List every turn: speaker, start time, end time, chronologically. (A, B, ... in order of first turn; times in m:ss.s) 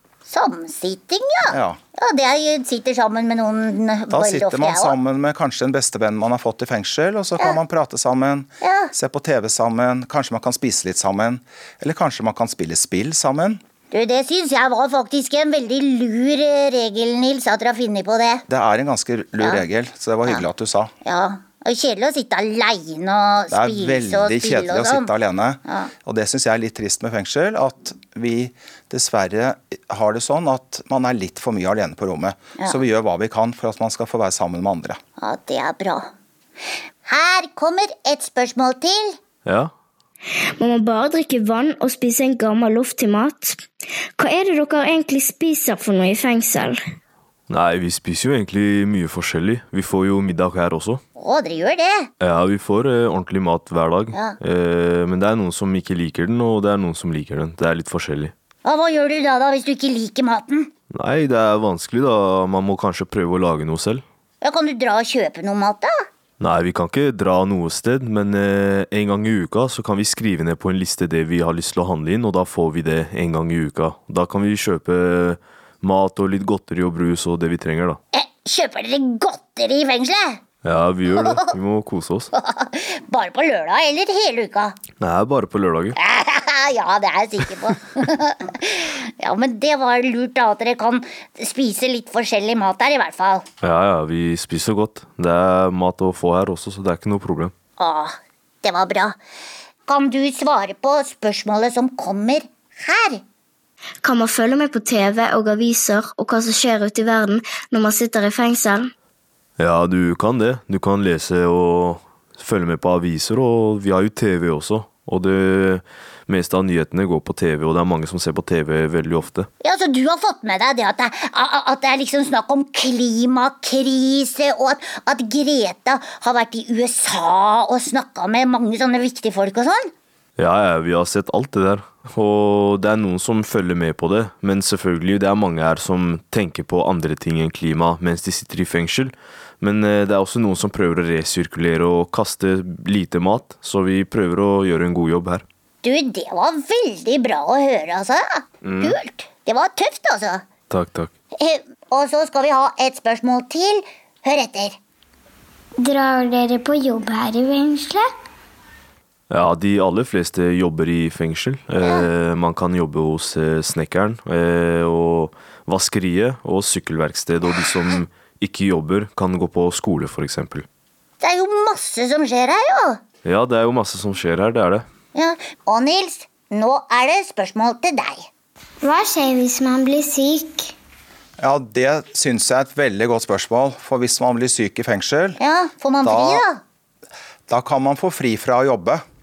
0:00.2-0:04.9 A
0:01.5-0:01.8 B
0:04.1-0:13.6 B
0:08.6-0:08.9 A
0:13.9-0:18.4 A
0:18.5-0:20.9 B
0:21.0-0:25.1 A
0:23.5-0:35.0 B
0:35.2-0:36.1 A
0:37.0-0:39.2 A
0:39.4-0:39.7 C
0:40.6-0:43.6 D
0:44.2-0:46.8 D
0:47.5-0:51.0 C
0:51.2-0:52.1 A
0:52.2-0:58.3 C
0:58.6-1:00.7 A
1:00.9-1:04.0 C
1:04.4-1:06.0 A
1:06.4-1:18.0 C
1:18.1-1:20.4 A
1:20.6-1:22.3 C
1:21.1-1:21.4 A
1:22.3-1:24.8 A
1:25.0-1:26.0 C
1:26.0-1:33.4 A
1:33.6-1:37.5 C
1:37.8-1:39.2 A
1:39.9-1:43.2 A
1:44.0-1:48.9 D
1:49.6-1:59.5 C
1:59.6-2:09.9 A
2:10.4-2:25.4 C
2:25.8-2:30.4 A
2:28.6-2:29.0 C
2:30.7-2:31.1 C
2:31.4-2:34.8 A
2:35.8-2:38.0 E
2:39.3-2:50.6 C
2:51.2-2:53.0 A
2:53.2-2:54.8 C
2:55.1-2:58.3 A
2:58.8-3:00.6 E
3:01.4-3:05.4 B
3:05.4-3:06.6 A
3:06.0-3:06.4 B
3:07.5-3:09.0 B